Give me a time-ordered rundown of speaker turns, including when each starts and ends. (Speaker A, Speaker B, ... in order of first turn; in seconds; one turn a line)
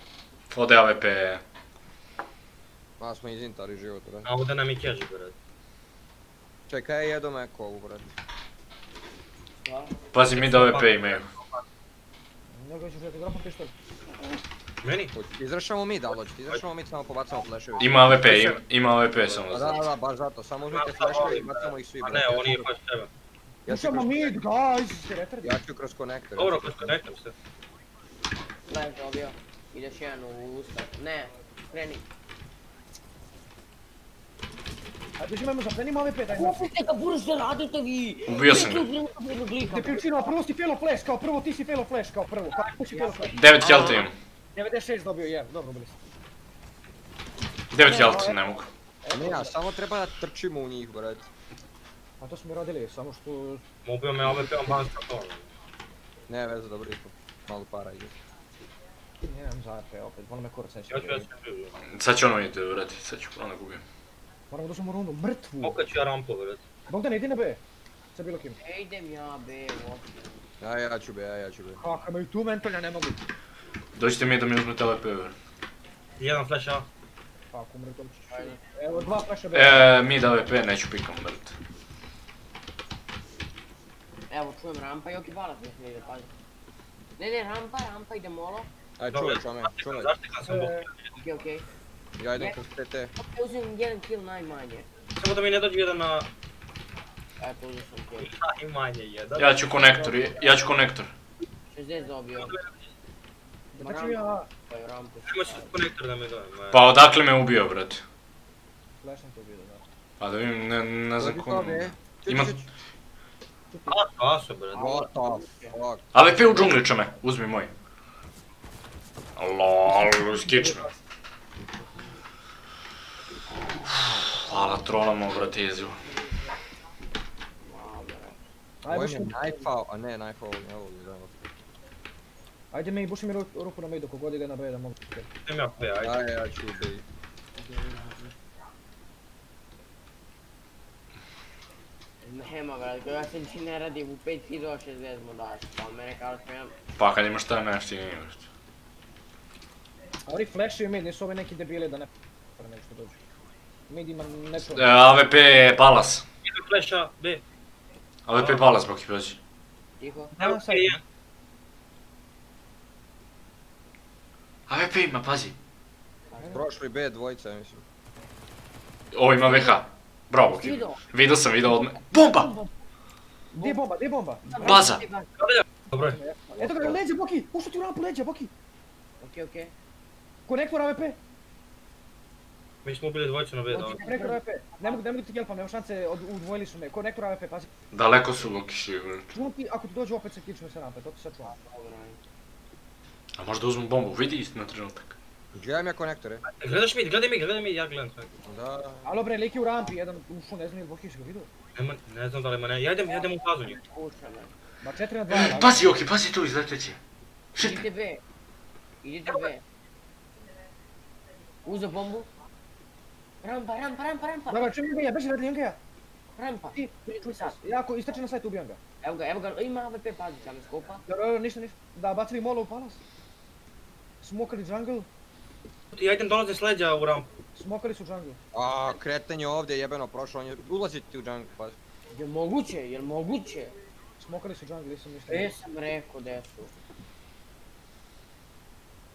Speaker A: 0.5-1.4
Speaker B: 3.0-4.3
Speaker C: 4.2-5.3
Speaker B: 6.7-8.1
Speaker D: 9.6-9.9
Speaker A: 10.1-11.3
Speaker C: 10.3-11.6
Speaker E: 12.5-13.7
Speaker C: 14.8-15.1
Speaker B: 15.1-18.4
Speaker A: 17.8-19.8
Speaker C: 18.2-18.6
Speaker B: 19.5-22.7
Speaker C: 20.7-23.1
Speaker B: 23.6-24.4
Speaker E: 23.6-25.6
Speaker B: 25.4-26.9
Speaker C: 26.4-27.3
Speaker D: 28.7-32.0
Speaker E: 35.2-36.7
Speaker D: 36.3-40.1
Speaker A: 38.3-38.9
Speaker E: 39.6-43.9
Speaker D: 42.9-44.1
Speaker A: 43.3-44.1
Speaker E: 44.5-46.0
Speaker A: 47.7-48.7
Speaker E: 47.8-49.5
Speaker B: 49.1-51.3
Speaker E: 52.2-53.6
Speaker C: 53.9-55.5
Speaker E: 54.2-54.8
Speaker B: 56.3-58.1
Speaker E: 59.2-61.2
Speaker C: 60.9-61.8
Speaker A: 61.8-63.8
Speaker E: 64.5-65.8
Speaker C: 65.6-66.6
Speaker E: 66.9-67.6
Speaker E: 68.1-68.6
Speaker D: 68.6-70.3
Speaker B: 70.6-71.8
Speaker E: 71.8-73.2
Speaker A: 74.0-75.3
Speaker C: 76.2-76.9
Speaker E: 77.5-79.9
Speaker D: 78.3-79.2
Speaker A: 79.5-81.5
Speaker D: 84.3-86.3
Speaker D: 87.2-88.7
Speaker B: 89.0-90.1
Speaker C: 89.1-91.1
Speaker E: 90.5-90.9
Speaker D: 91.2-91.7
Speaker B: 92.2-93.1
Speaker D: 93.2-94.9
Speaker C: 95.2-96.3
Speaker D: 97.4-98.3
Speaker C: 98.2-99.6
Speaker A: 99.4-101.1
Speaker E: 99.9-100.6
Speaker D: 101.7-102.5
Speaker C: 102.4-102.8
Speaker E: 103.7-104.5
Speaker D: 103.8-105.7
Speaker C: 105.2-106.9
Speaker A: 106.7-108.0
Speaker E: 109.0-109.9
Speaker A: 110.2-112.6
Speaker B: 111.2-112.6
Speaker C: 113.9-115.0
Speaker B: 114.7-116.0
Speaker D: 114.7-115.8
Speaker A: 116.1-117.7
Speaker A: 119.4-120.9
Speaker E: 119.9-120.9
Speaker A: 124.3-126.0
Speaker D: 126.0-126.4
Speaker D: 127.6-128.4
Speaker E: 128.8-129.6
Speaker B: 128.9-131.5
Speaker E: 132.7-135.3
Speaker C: 135.4-136.2
Speaker B: 136.0-137.0
Speaker D: 137.6-138.3
Speaker D: 142.2-146.7
Speaker A: 147.0-148.5
Speaker E: 150.2-153.2
Speaker E: 153.9-154.9
Speaker A: 154.6-156.2
Speaker C: 156.4-157.4
Speaker A: 158.3-159.4
Speaker D: 160.0-160.3
Speaker E: 160.3-161.0
Speaker C: 160.4-161.0
Speaker A: 164.7-165.6
Speaker D: 166.3-166.6
Speaker B: 166.5-167.8
Speaker A: 169.1-172.5
Speaker D: 169.4-169.8
Speaker D: 170.5-171.0
Speaker D: 171.7-172.7
Speaker D: 173.5-173.8
Speaker E: 173.6-174.8
Speaker D: 174.4-175.3
Speaker A: 174.6-175.1
Speaker C: 175.4-176.2
Speaker E: 175.9-178.5
Speaker B: 176.5-177.0
Speaker D: 179.2-179.7
Speaker E: 180.4-181.2
Speaker C: 182.8-184.0
Speaker D: 183.7-185.0
Speaker E: 183.7-187.7
Speaker A: 187.9-189.3
Speaker E: 189.3-191.5
Speaker D: 191.5-192.2
Speaker A: 193.4-195.1
Speaker B: 195.5-196.4
Speaker C: 196.5-198.3
Speaker B: 198.4-199.1
Speaker E: 199.0-201.5
Speaker C: 201.8-203.8
Speaker D: 203.7-204.5
Speaker E: 204.8-205.9
Speaker A: 205.3-207.0
Speaker A: 207.5-207.8
Speaker D: 207.6-208.2
Speaker D: 209.0-209.6
Speaker D: 211.6-212.3
Speaker D: 213.4-214.7
Speaker E: 214.5-215.8
Speaker D: 216.3-217.6
Speaker E: 216.7-218.8
Speaker D: 219.0-221.0
Speaker E: 221.1-223.0
Speaker E: 224.2-225.1
Speaker C: 225.9-227.3
Speaker E: 227.5-228.4
Speaker B: 228.5-231.8
Speaker D: 232.1-233.7
Speaker E: 234.2-235.6
Speaker D: 235.3-236.7